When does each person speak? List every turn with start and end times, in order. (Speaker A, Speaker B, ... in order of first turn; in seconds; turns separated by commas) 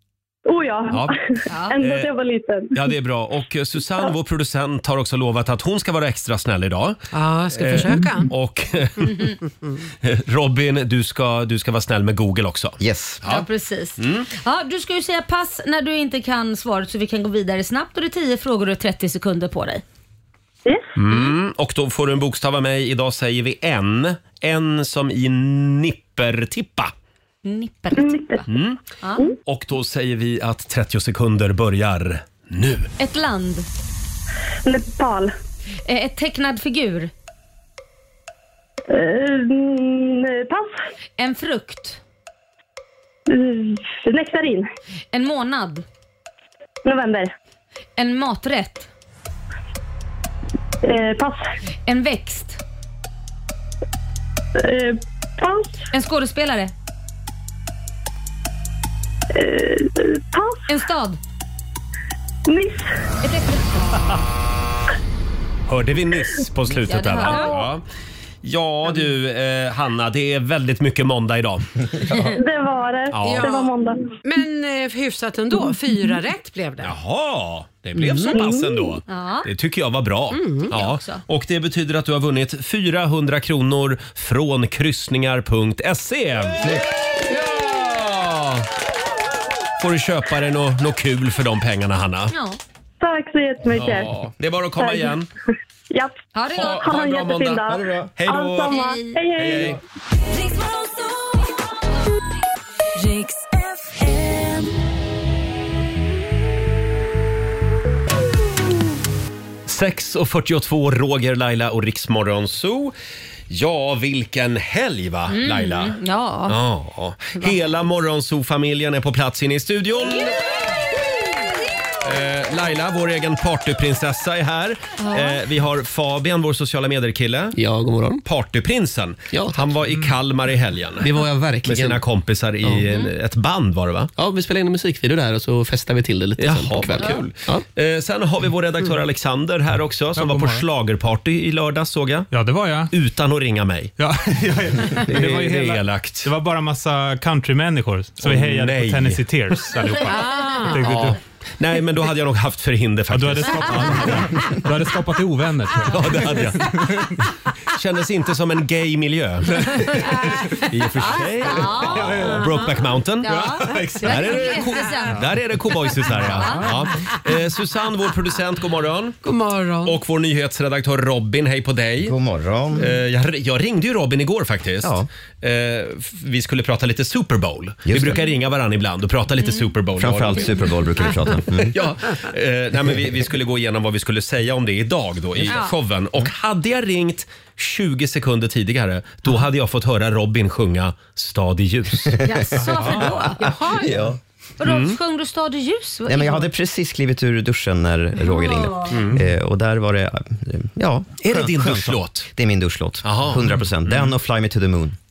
Speaker A: 0.5-2.8, Speaker B: 0.9-1.2, Speaker C: 1.5-1.8, Speaker B: 1.8-2.1, Speaker B: 2.7-9.3, Speaker D: 7.1-8.3, Speaker B: 10.0-13.5, Speaker E: 12.8-13.2, Speaker C: 13.3-19.8, Speaker B: 14.0-14.3, Speaker A: 20.7-20.9, Speaker B: 21.0-26.9, Speaker C: 27.4-28.5, Speaker A: 27.9-28.4, Speaker B: 28.5-28.8, Speaker C: 29.0-29.3, Speaker B: 29.4-32.9, Speaker C: 33.0-33.7, Speaker A: 34.6-35.3, Speaker C: 35.9-37.1, Speaker A: 38.9-40.8, Speaker C: 41.2-42.0, Speaker A: 43.3-44.7, Speaker C: 45.1-45.9, Speaker A: 46.8-47.3, Speaker C: 48.0-48.9, Speaker A: 50.8-51.5, Speaker C: 51.9-52.6, Speaker A: 54.6-55.8, Speaker C: 55.9-56.7, Speaker A: 59.3-60.6, Speaker C: 60.7-61.2, Speaker A: 62.5-62.9, Speaker C: 63.2-64.0, Speaker B: 65.7-67.8, Speaker C: 66.9-67.5, Speaker B: 68.4-71.7, Speaker A: 72.3-74.1, Speaker B: 73.1-73.6, Speaker D: 73.2-73.7, Speaker D: 74.2-77.0, Speaker B: 76.8-88.7, Speaker D: 78.0-78.4, Speaker A: 78.3-78.8, Speaker C: 79.1-79.5, Speaker D: 80.3-80.7, Speaker C: 80.7-81.2, Speaker B: 89.8-92.3, Speaker C: 92.3-92.6, Speaker A: 93.0-94.2, Speaker B: 93.7-95.3, Speaker A: 94.8-95.2, Speaker A: 95.9-99.8, Speaker C: 96.3-96.9, Speaker B: 96.5-98.8, Speaker C: 98.7-99.2, Speaker B: 99.3-99.8, Speaker F: 100.2-101.5, Speaker F: 103.0-104.7, Speaker B: 109.7-113.0, Speaker B: 113.5-120.6, Speaker C: 115.3-116.6, Speaker B: 122.0-127.6, Speaker C: 125.0-125.4, Speaker G: 127.6-128.2, Speaker B: 128.2-134.1, Speaker G: 129.3-129.6, Speaker G: 131.0-132.0, Speaker G: 134.2-137.6, Speaker B: 136.4-142.3, Speaker H: 140.2-140.6, Speaker H: 142.3-142.9, Speaker B: 142.9-143.9, Speaker H: 144.0-151.2, Speaker B: 145.1-146.3, Speaker B: 148.2-149.7, Speaker D: 150.1-150.8, Speaker B: 150.8-154.5, Speaker H: 153.1-157.1, Speaker B: 155.9-157.1, Speaker B: 157.7-169.2, Speaker C: 161.1-162.3, Speaker C: 163.2-165.2, Speaker D: 164.0-164.4, Speaker C: 166.3-166.7, Speaker D: 169.2-170.0, Speaker B: 169.8-172.2, Speaker E: 172.0-172.9, Speaker B: 172.8-180.6, Speaker E: 174.8-175.1, Speaker E: 177.9-178.2, Speaker C: 179.4-179.7, Speaker E: 180.0-181.8, Speaker B: 181.7-193.0, Speaker C: 185.5-185.7, Speaker C: 192.2-193.5, Speaker D: 193.4-194.0, Speaker E: 193.8-194.2, Speaker C: 194.6-196.5, Speaker B: 194.6-195.0, Speaker E: 196.1-205.0, Speaker C: 198.2-199.0, Speaker B: 198.9-199.2, Speaker B: 201.2-202.3, Speaker B: 203.0-204.0